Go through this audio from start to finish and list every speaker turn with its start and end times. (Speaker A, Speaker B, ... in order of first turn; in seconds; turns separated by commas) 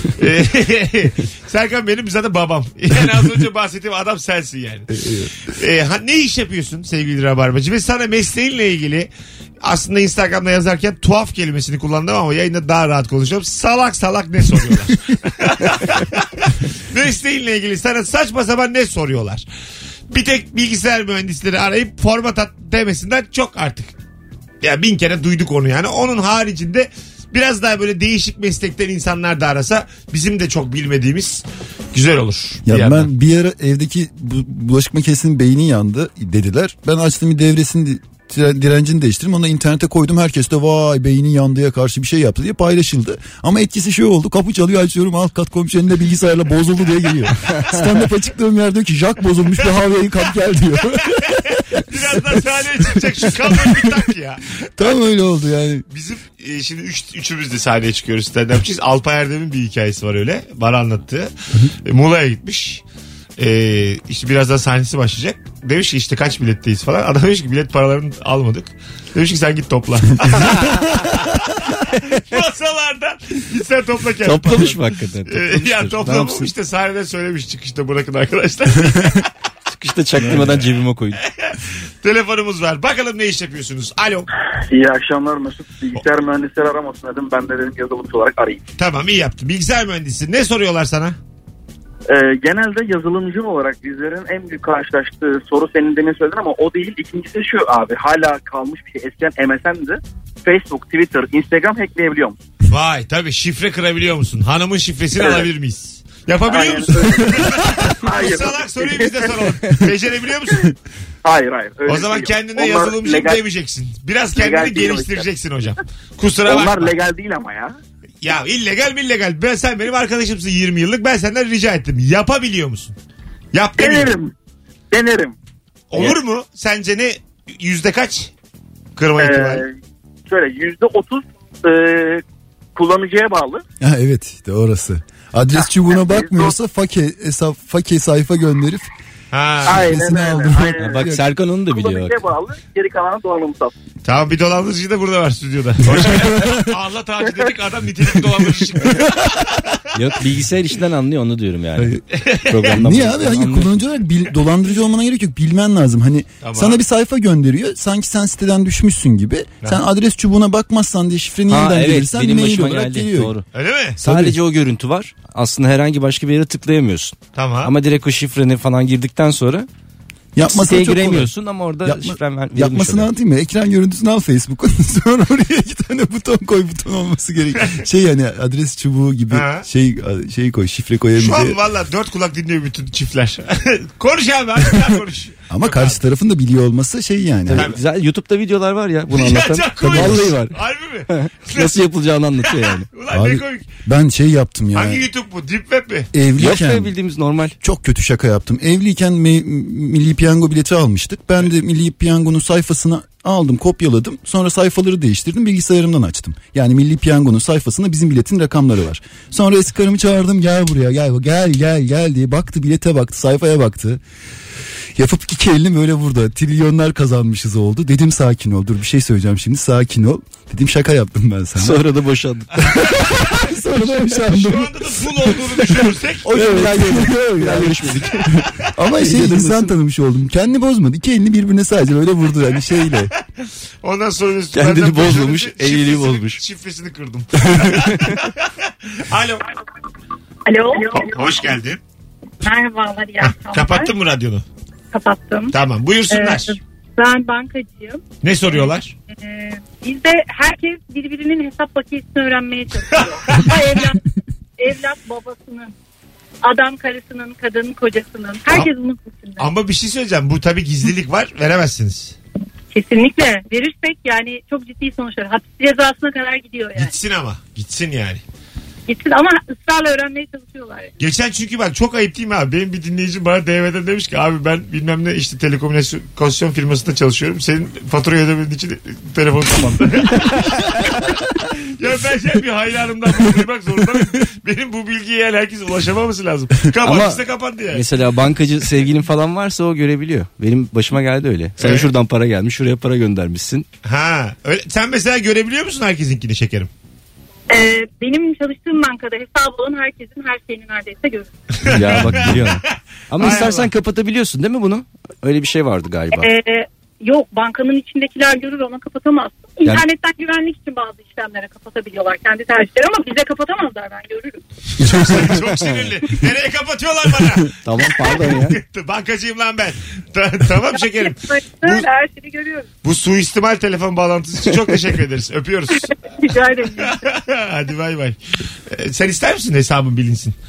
Speaker A: 0.2-4.9, Speaker B: 4.9-5.3, Speaker A: 5.5-9.1, Speaker A: 9.6-19.4, Speaker A: 20.1-23.9, Speaker A: 24.6-33.1, Speaker B: 32.7-52.4, Speaker A: 50.9-55.0, Speaker B: 53.6-53.9, Speaker B: 54.8-55.9, Speaker A: 55.9-61.3, Speaker A: 61.8-62.8, Speaker A: 63.4-79.3, Speaker C: 74.2-76.5, Speaker C: 79.7-81.2, Speaker A: 80.3-84.3, Speaker D: 84.7-88.6, Speaker A: 88.8-91.2, Speaker D: 92.1-102.4, Speaker A: 102.7-110.7, Speaker D: 105.2-105.5, Speaker D: 106.5-109.5, Speaker D: 111.2-113.4, Speaker A: 111.9-117.0, Speaker D: 114.3-115.3, Speaker D: 116.5-117.8, Speaker A: 118.2-123.0, Speaker A: 123.5-124.2, Speaker D: 123.8-124.3, Speaker D: 124.9-125.3, Speaker A: 125.9-128.3, Speaker A: 129.0-129.6, Speaker D: 129.2-129.7, Speaker D: 130.3-132.2, Speaker D: 132.8-133.6, Speaker B: 133.8-138.9, Speaker D: 135.8-136.5, Speaker A: 139.3-139.8, Speaker D: 139.7-143.7, Speaker B: 139.7-141.2, Speaker C: 140.8-142.2, Speaker A: 144.0-149.8, Speaker B: 145.9-146.7, Speaker C: 149.9-153.8, Speaker A: 152.1-152.8, Speaker B: 152.7-163.3, Speaker A: 156.4-156.8, Speaker C: 161.5-163.4, Speaker A: 163.5-164.0, Speaker C: 164.0-169.7, Speaker B: 164.0-164.4, Speaker A: 167.3-167.7, Speaker B: 170.3-171.3, Speaker C: 170.5-173.1, Speaker B: 171.8-181.6, Speaker A: 179.3-179.7, Speaker A: 181.2-186.0, Speaker B: 185.5-187.7, Speaker C: 187.5-190.6, Speaker A: 187.5-187.8, Speaker A: 189.1-191.8, Speaker B: 189.8-190.3, Speaker C: 191.1-192.9, Speaker A: 192.4-193.7, Speaker B: 193.1-195.0, Speaker A: 194.7-196.1, Speaker B: 196.1-196.9, Speaker C: 196.4-197.6, Speaker B: 197.6-214.0, Speaker B: 215.0-221.8, Speaker C: 221.6-222.6, Speaker B: 222.6-225.3, Speaker A: 222.7-223.4, Speaker A: 224.3-226.3, Speaker C: 226.2-228.3, Speaker B: 226.3-233.1, Speaker C: 229.0-229.7, Speaker A: 233.8-239.5, Speaker C: 234.5-236.4, Speaker C: 237.5-238.1, Speaker E: 240.5-241.1, Speaker A: 240.8-241.8, Speaker E: 242.4-243.9, Speaker A: 243.2-244.4, Speaker E: 244.9-245.5, Speaker A: 245.5-246.6, Speaker E: 246.1-254.0, Speaker A: 248.2-248.9, Speaker A: 252.9-253.8, Speaker E: 254.6-255.7, Speaker E: 256.4-259.5, Speaker A: 259.4-262.2, Speaker E: 262.7-266.9, Speaker A: 266.8-268.2, Speaker E: 268.9-270.9, Speaker A: 271.0-287.8, Speaker C: 286.8-293.7, Speaker A: 291.6-291.9, Speaker A: 293.9-296.7, Speaker E: 297.5-301.3, Speaker A: 301.6-302.6, Speaker C: 301.7-306.3, Speaker A: 303.2-303.7, Speaker E: 303.2-303.5, Speaker E: 306.1-314.4, Speaker A: 314.8-321.9, Speaker C: 317.6-318.6, Speaker E: 320.7-322.7, Speaker A: 322.8-325.9, Speaker E: 325.8-327.0, Speaker A: 326.8-328.2, Speaker A: 328.7-330.4